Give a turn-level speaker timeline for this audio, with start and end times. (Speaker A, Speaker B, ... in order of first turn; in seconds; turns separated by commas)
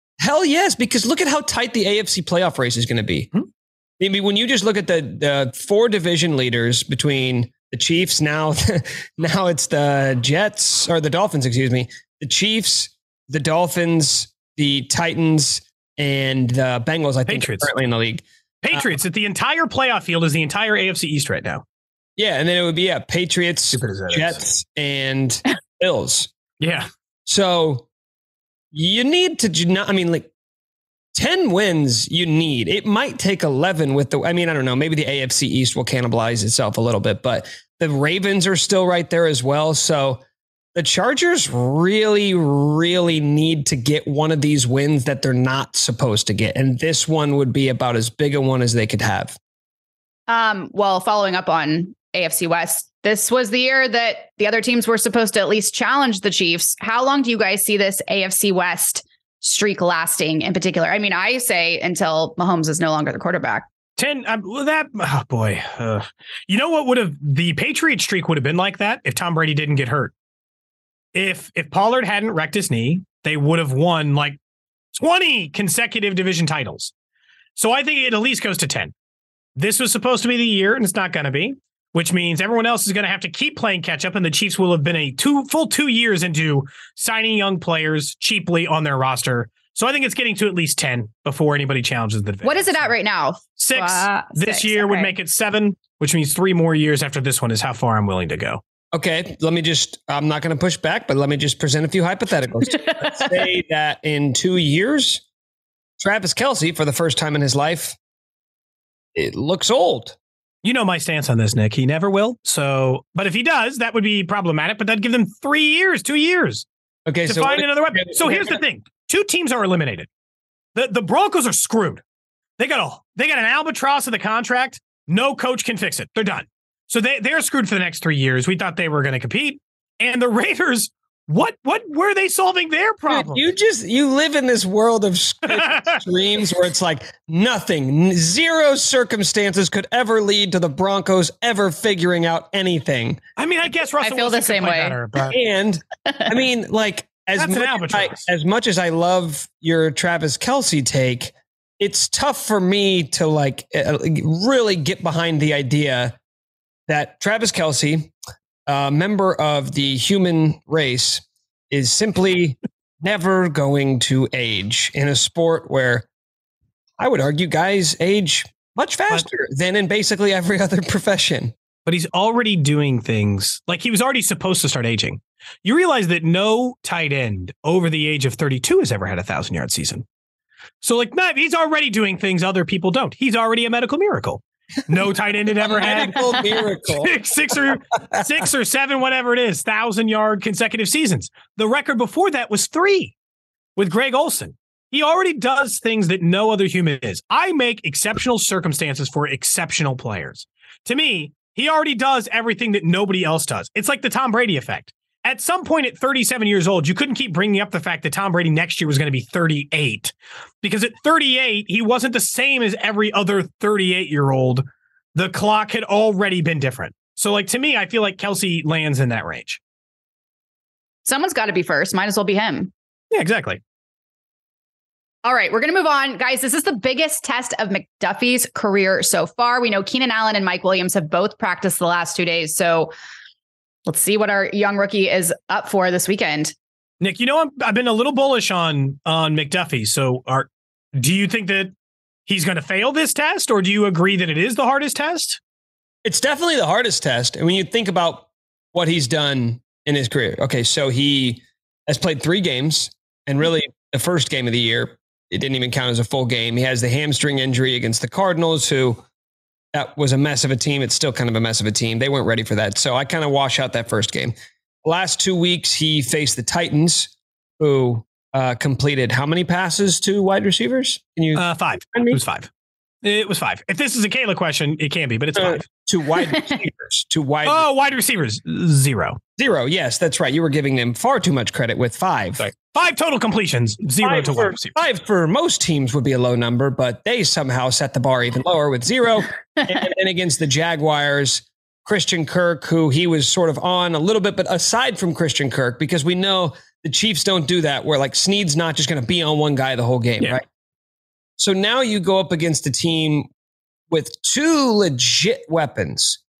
Speaker A: 0.2-3.3, Speaker A: 4.0-18.9, Speaker B: 17.2-17.7, Speaker B: 18.6-21.6, Speaker A: 22.2-26.3, Speaker B: 23.7-24.4, Speaker B: 26.6-26.9, Speaker A: 27.2-27.9, Speaker A: 28.7-30.3, Speaker A: 31.1-40.2, Speaker A: 40.7-49.4, Speaker C: 50.3-63.7, Speaker B: 64.0-70.1, Speaker B: 71.1-74.4, Speaker B: 74.9-76.9, Speaker B: 77.5-78.9, Speaker B: 79.5-92.9, Speaker C: 92.4-95.1, Speaker B: 93.6-98.6, Speaker A: 98.9-105.2, Speaker C: 102.7-103.4, Speaker A: 106.0-108.0, Speaker A: 109.1-110.2, Speaker B: 110.6-116.7, Speaker A: 117.1-118.6, Speaker B: 117.3-120.1, Speaker B: 120.7-122.0, Speaker B: 122.6-133.4, Speaker A: 133.1-143.2, Speaker B: 135.5-136.0, Speaker B: 143.4-145.4, Speaker C: 144.0-145.0, Speaker A: 145.3-156.2, Speaker C: 146.0-146.4, Speaker B: 147.3-148.3, Speaker A: 156.9-158.1, Speaker A: 158.7-166.1, Speaker A: 167.0-171.5, Speaker B: 171.8-180.0, Speaker B: 180.8-193.1, Speaker A: 185.6-187.1, Speaker B: 193.8-219.6, Speaker C: 221.0-222.7, Speaker B: 223.1-223.6, Speaker C: 225.2-232.9, Speaker C: 233.8-236.5, Speaker B: 237.0-241.7, Speaker B: 242.3-245.4, Speaker A: 246.0-259.0, Speaker A: 259.7-272.2, Speaker B: 271.3-272.5, Speaker B: 273.0-275.7, Speaker A: 275.4-277.7, Speaker C: 276.3-276.6, Speaker B: 277.4-279.2, Speaker A: 279.4-282.5, Speaker B: 282.4-284.8, Speaker A: 284.0-300.4, Speaker A: 301.4-303.3, Speaker A: 303.9-306.2